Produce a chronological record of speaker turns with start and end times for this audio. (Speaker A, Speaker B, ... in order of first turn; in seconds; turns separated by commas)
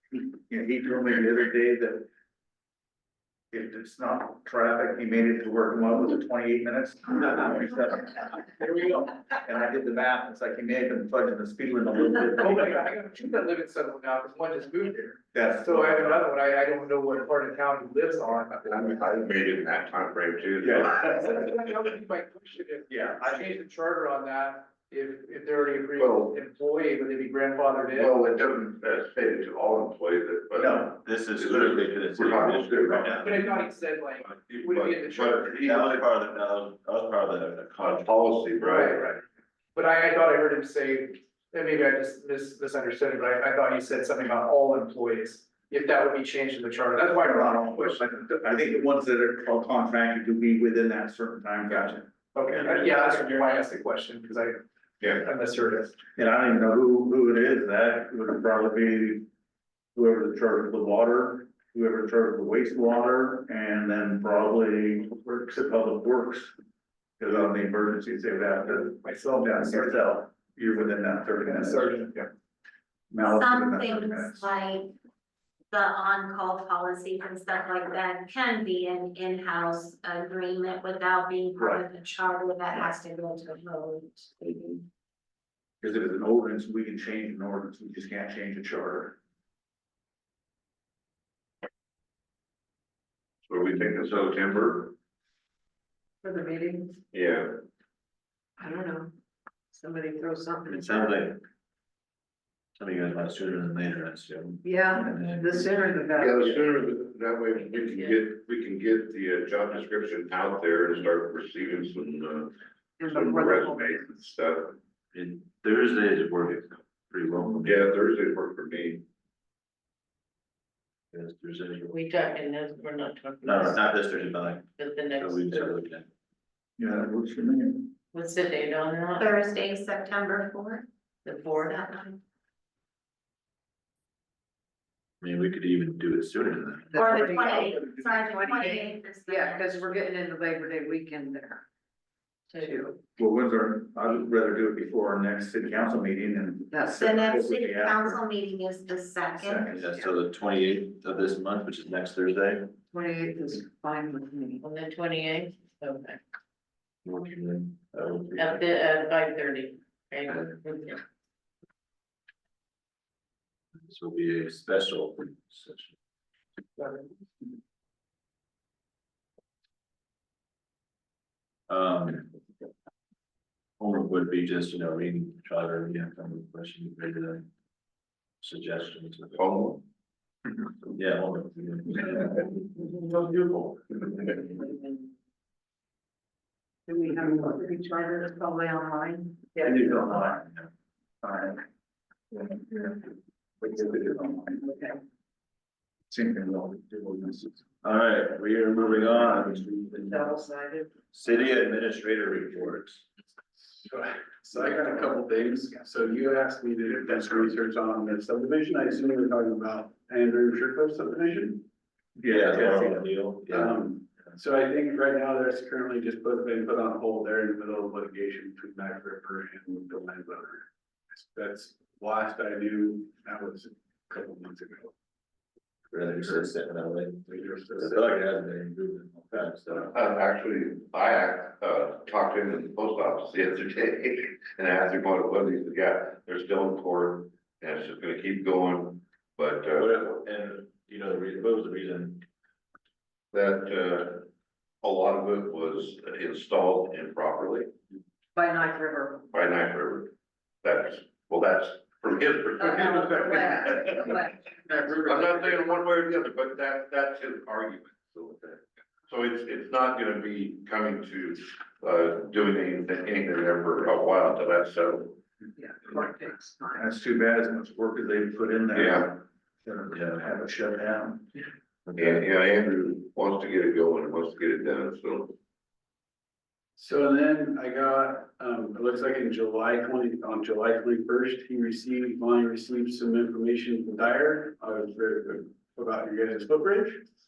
Speaker A: 0.5-2.1, Speaker A: 3.5-12.9, Speaker B: 12.4-19.0, Speaker A: 15.3-16.2, Speaker C: 18.7-21.2, Speaker A: 20.6-21.1, Speaker B: 20.8-28.2, Speaker A: 22.9-23.6, Speaker C: 26.0-26.4, Speaker C: 27.9-33.4, Speaker A: 30.6-31.0, Speaker D: 31.0-33.4, Speaker B: 33.2-35.9, Speaker C: 34.2-35.9, Speaker D: 35.5-38.2, Speaker C: 37.8-39.0, Speaker B: 38.6-39.2, Speaker B: 39.8-48.0, Speaker A: 47.2-53.2, Speaker B: 52.3-56.0, Speaker A: 56.2-59.3, Speaker A: 60.0-66.5, Speaker A: 67.2-72.2, Speaker B: 69.0-70.0, Speaker B: 71.5-72.3, Speaker A: 73.1-74.5, Speaker E: 73.2-74.9, Speaker E: 75.7-84.8, Speaker A: 81.6-81.8, Speaker A: 85.8-89.2, Speaker C: 93.5-94.9, Speaker F: 96.2-97.0, Speaker C: 97.1-97.6, Speaker F: 98.6-99.1, Speaker F: 99.7-101.2, Speaker D: 100.7-101.4, Speaker D: 102.8-106.0, Speaker F: 104.6-106.5, Speaker C: 106.1-114.8, Speaker F: 113.0-114.1, Speaker D: 115.1-117.9, Speaker C: 117.6-119.0, Speaker D: 121.1-122.1, Speaker G: 121.9-124.2, Speaker D: 123.4-126.1, Speaker G: 124.8-125.7, Speaker A: 126.8-127.9, Speaker G: 128.1-129.3, Speaker E: 129.2-130.9, Speaker G: 131.2-131.8, Speaker E: 131.5-132.2, Speaker D: 135.2-137.1, Speaker F: 136.9-141.7, Speaker E: 137.0-139.9, Speaker G: 142.5-142.9, Speaker F: 142.6-143.0, Speaker A: 143.2-148.2, Speaker F: 146.7-147.0, Speaker E: 146.9-149.8, Speaker A: 149.4-149.8, Speaker D: 149.7-152.8, Speaker F: 152.9-154.6, Speaker G: 154.6-156.2, Speaker D: 157.0-158.6, Speaker G: 158.3-161.0, Speaker D: 163.8-166.0, Speaker D: 171.7-172.3, Speaker D: 173.8-177.5, Speaker D: 178.4-179.4, Speaker C: 179.3-179.8, Speaker D: 180.9-182.6, Speaker D: 183.2-183.6, Speaker F: 186.9-190.2, Speaker A: 189.6-190.6, Speaker A: 191.2-191.6, Speaker A: 192.3-193.0, Speaker A: 193.6-194.7, Speaker F: 194.6-194.9, Speaker A: 196.1-197.5, Speaker D: 197.8-199.8, Speaker H: 198.7-200.0, Speaker F: 200.0-201.0, Speaker D: 201.1-203.1, Speaker H: 203.6-211.7, Speaker A: 212.2-213.0, Speaker D: 212.2-213.8, Speaker H: 213.5-224.9, Speaker D: 225.9-229.9, Speaker H: 226.0-226.5, Speaker H: 227.3-228.2, Speaker C: 229.8-240.0, Speaker D: 239.8-242.2, Speaker C: 243.3-244.3, Speaker C: 244.8-247.7, Speaker F: 248.3-249.3, Speaker C: 249.3-250.1, Speaker C: 250.6-265.2, Speaker F: 252.6-255.6, Speaker F: 265.6-266.8, Speaker A: 266.8-271.3, Speaker C: 268.7-269.1, Speaker D: 271.9-272.2, Speaker C: 271.9-275.3, Speaker H: 276.8-287.0